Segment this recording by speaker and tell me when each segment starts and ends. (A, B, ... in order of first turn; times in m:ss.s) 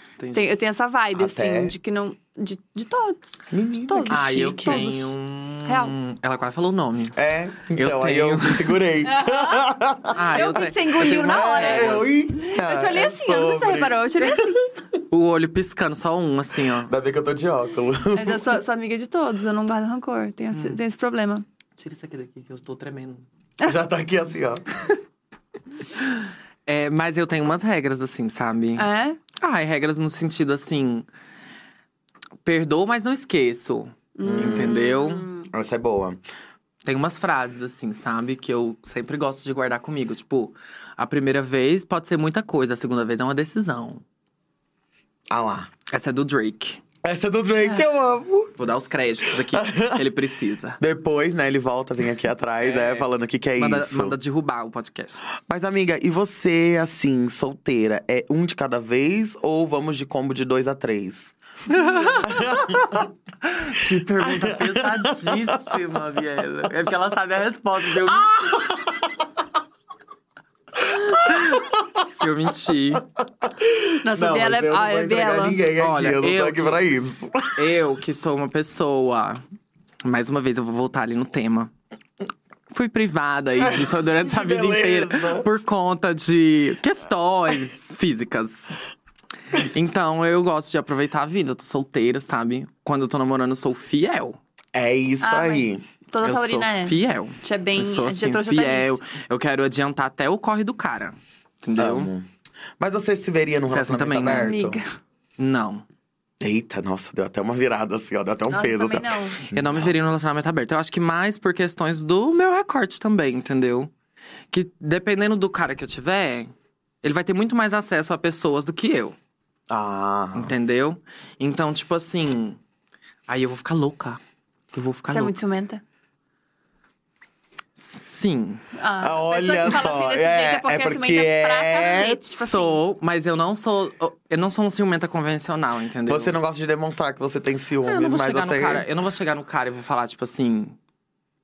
0:00.2-0:00.5 A
0:00.3-0:03.2 B
0:01.1-0:01.7 C
0:03.5-0:04.9 C
0:03.8-0:05.1 B
0:04.1-0:07.2 A
0:05.6-0:05.9 B
0:07.2-0:14.7 C
0:07.7-0:08.8 A
0:09.0-0:09.6 B
0:10.1-0:12.1 A
0:10.3-0:14.6 B
0:15.1-0:16.9 A
0:16.8-0:18.6 C
0:18.1-0:21.4 B
0:20.5-0:20.8 A
0:21.8-0:23.2 A
0:23.6-0:24.6 C
0:26.7-0:31.1 A
0:28.8-0:29.2 B
0:32.4-0:35.2 A
0:34.2-0:35.5 B
0:34.2-0:34.8 C
0:35.5-0:36.2 C
0:36.8-0:44.0 A
0:45.3-0:45.7 C
0:45.9-0:46.8 A
0:47.0-0:48.6 C
0:48.6-0:50.8 A
0:49.2-0:50.1 C
0:50.8-0:54.2 C
0:52.6-0:55.2 A
0:55.5-1:01.3 C
1:01.7-1:08.4 A
1:02.2-1:03.0 C
1:04.2-1:05.6 C
1:07.8-1:09.1 C
1:10.8-1:11.8 C
1:11.1-1:13.0 A
1:12.9-1:17.7 C
1:14.0-1:15.6 B
1:15.8-1:16.8 A
1:17.6-1:19.4 A
1:20.0-1:21.7 A
1:22.7-1:28.8 A
1:23.6-1:25.5 C
1:29.5-1:34.4 A
1:34.7-1:35.8 C
1:35.2-1:39.0 B
1:36.2-1:42.1 A
1:41.8-1:42.3 C
1:42.8-1:44.8 C
1:43.7-1:44.5 A
1:44.2-1:44.8 B
1:45.4-1:45.8 A
1:46.4-1:49.9 C
1:48.5-1:49.4 B
1:49.4-1:53.9 A
1:54.5-1:59.2 A
1:59.7-2:00.5 C
2:00.3-2:02.6 A
2:03.3-2:04.2 A
2:04.7-2:05.3 A
2:05.1-2:05.8 B
2:07.8-2:08.6 A
2:08.8-2:12.8 B
2:09.0-2:12.2 C
2:12.4-2:16.4 A
2:16.1-2:18.9 C
2:17.8-2:20.8 A